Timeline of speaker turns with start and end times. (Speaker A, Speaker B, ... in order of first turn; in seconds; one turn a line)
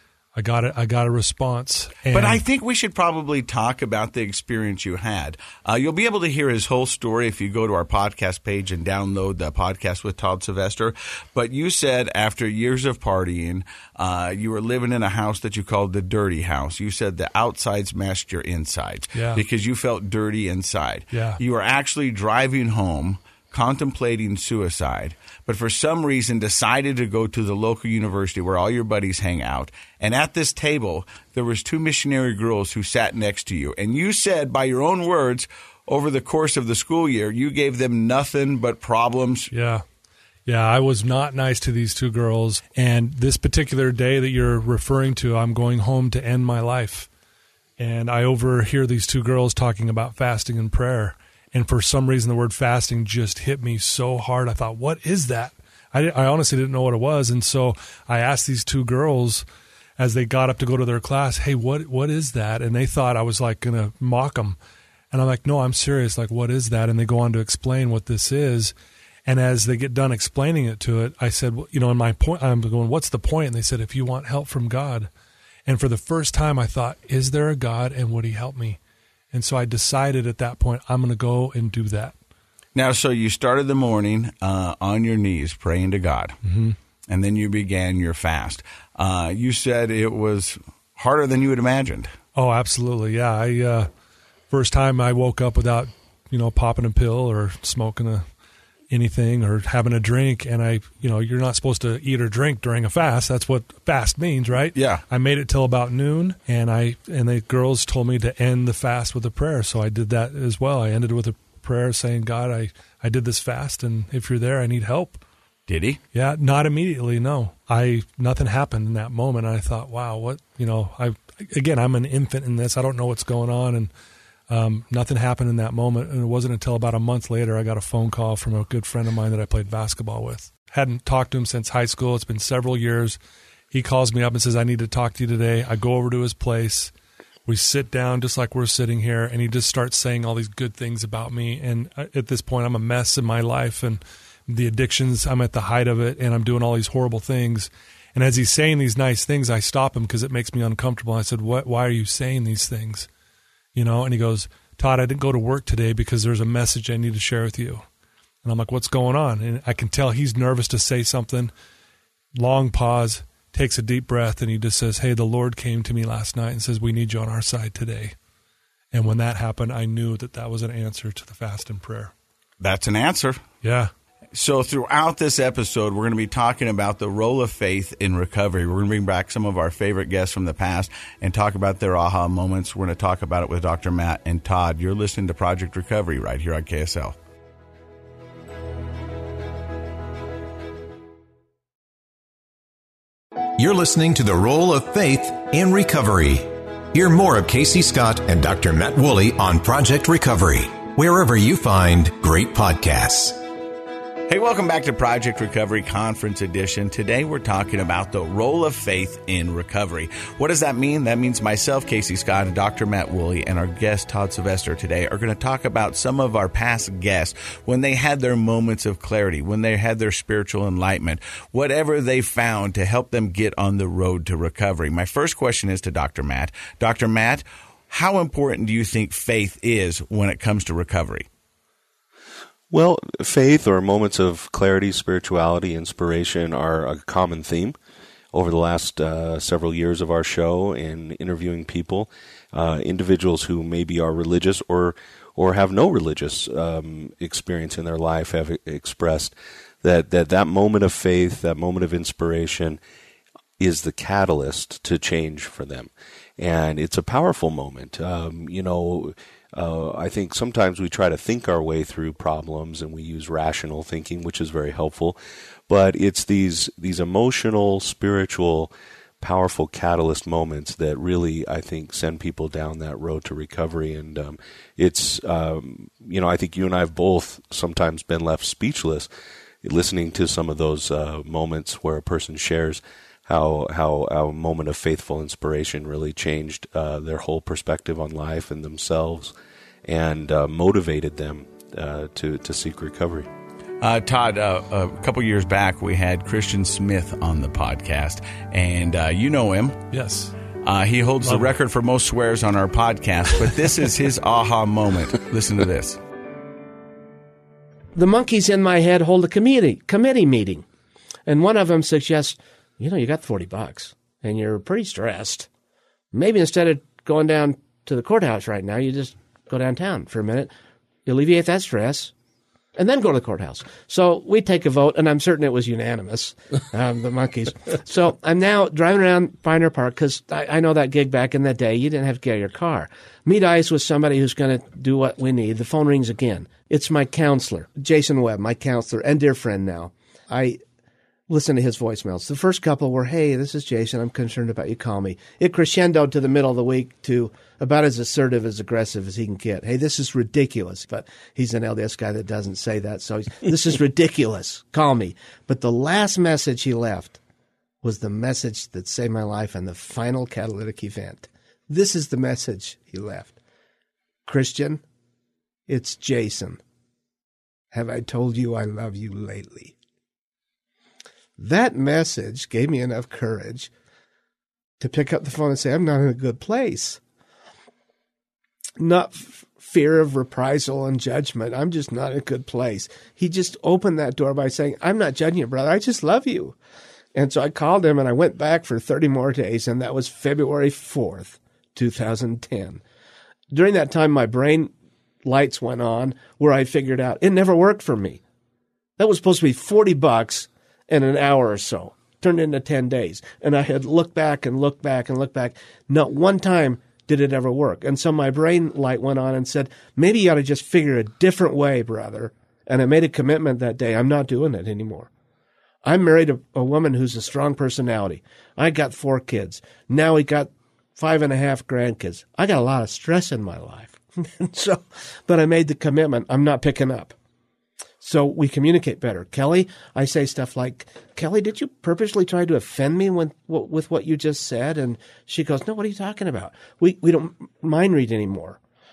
Speaker A: 0.3-2.4
Speaker B: 2.1-39.5
Speaker A: 19.1-19.4
Speaker A: 21.1-21.4
Speaker A: 39.5-39.8
Speaker A: 40.5-47.1
Speaker A: 47.8-59.5
Speaker A: 60.0-64.6
Speaker A: 65.1-68.7
Speaker A: 69.3-75.1
Speaker A: 75.7-78.8
Speaker A: 79.3-82.2
Speaker B: 82.8-86.4
Speaker A: 86.4-86.8
Speaker B: 87.1-92.1
Speaker A: 92.3-93.9
Speaker A: 94.5-98.2
Speaker A: 98.9-115.2
Speaker B: 104.8-105.0
Speaker B: 115.7-116.0
Speaker A: 116.1-123.9
Speaker A: 124.5-133.2
Speaker A: 133.7-136.9
Speaker A: 137.5-153.1
Speaker A: 153.8-157.8
Speaker A: 158.4-161.5
Speaker A: 162.3-168.2
Speaker A: 168.9-172.1
Speaker B: 172.6-173.4
Speaker A: 173.6-173.9
Speaker B: 174.3-187.2
Speaker C: 193.6-203.4
Speaker B: 204.3-231.3
Speaker D: 232.7-237.8
Speaker D: 238.3-252.8
Speaker D: 253.6-265.2
Speaker D: 265.7-279.1
Speaker D: 279.6-289.3
Speaker D: 289.9-293.3
Speaker B: 293.8-299.8
Speaker A: 299.9-300.3
Speaker B: 300.6-306.0
Speaker A: 301.2-301.5
Speaker E: 307.9-310.6
Speaker E: 311.3-315.5
Speaker E: 316.1-320.5
Speaker E: 321.1-322.1
Speaker E: 322.8-340.6
Speaker E: 341.3-357.2
Speaker E: 357.8-363.4
Speaker E: 364.2-364.8
Speaker E: 365.7-366.6
Speaker E: 367.7-369.7
Speaker E: 371.4-373.7
Speaker E: 374.8-377.0
Speaker E: 378.8-386.6
Speaker E: 387.1-392.8
Speaker E: 393.5-394.7
Speaker E: 395.2-398.2
Speaker E: 399.0-415.1
Speaker E: 415.8-427.1
Speaker E: 428.0-438.6